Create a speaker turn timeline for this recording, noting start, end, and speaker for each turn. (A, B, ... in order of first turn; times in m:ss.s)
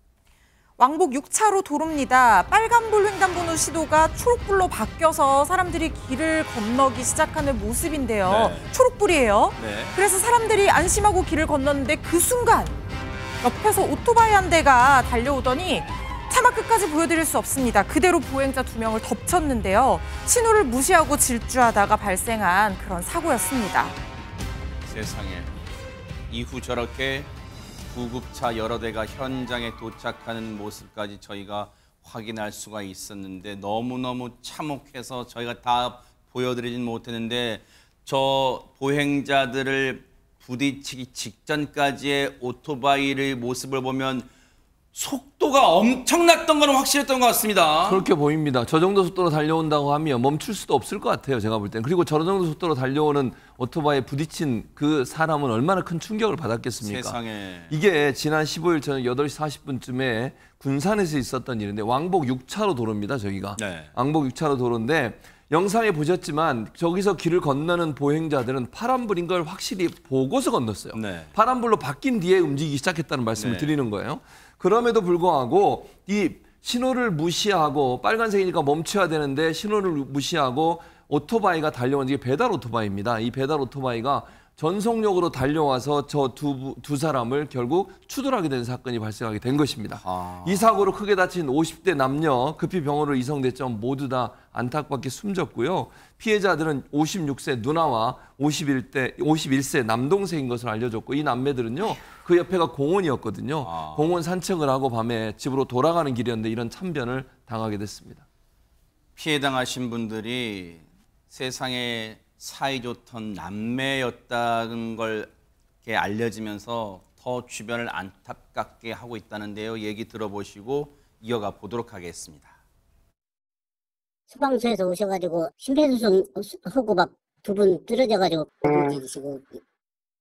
0:00.8-0:12.8 A
0:08.3-0:08.7 B
0:09.6-0:10.0 B
0:13.4-0:24.0 A
0:24.9-0:25.5 B
0:26.3-0:27.3 B
0:27.9-0:44.3 B
0:44.9-0:48.0 B
0:47.9-0:57.2 C
0:56.8-0:57.7 B
0:57.7-1:48.2 C
1:03.6-1:03.9 B
1:10.9-1:11.3 B
1:13.4-1:13.7 B
1:30.0-1:30.7 B
1:43.6-1:44.1 B
1:49.2-1:55.3 B
1:55.8-2:02.5 B
2:04.3-2:09.6 D